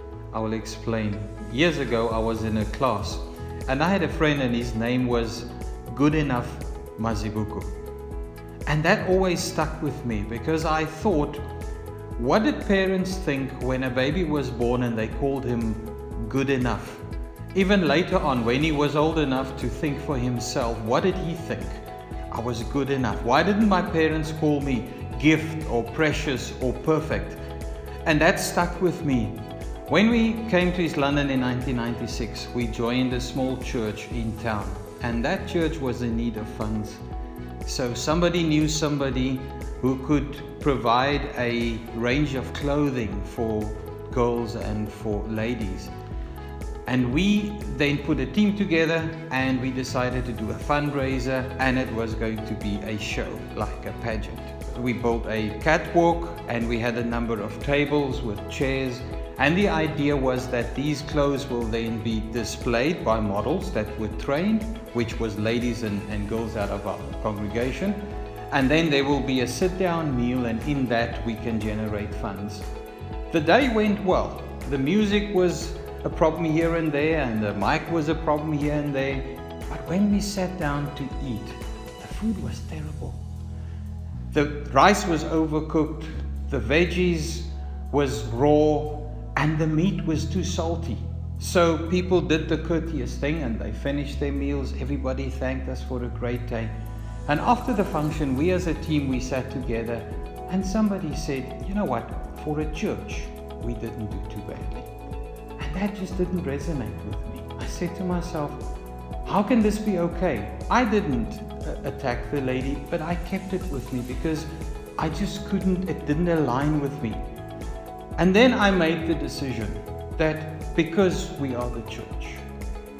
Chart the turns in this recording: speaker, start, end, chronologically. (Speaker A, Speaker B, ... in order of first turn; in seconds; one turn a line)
Speaker A: 0.3-7.8
Speaker A: 8.7-11.5
Speaker A: 12.2-17.0
Speaker A: 17.5-27.4
Speaker A: 28.0-37.0
Speaker A: 37.6-45.9
Speaker A: 46.9-72.7
Speaker A: 73.3-83.2
Speaker A: 84.3-96.7
Speaker A: 97.2-104.9
Speaker A: 105.6-108.7
Speaker A: 109.2-117.2
Speaker A: 118.2-122.4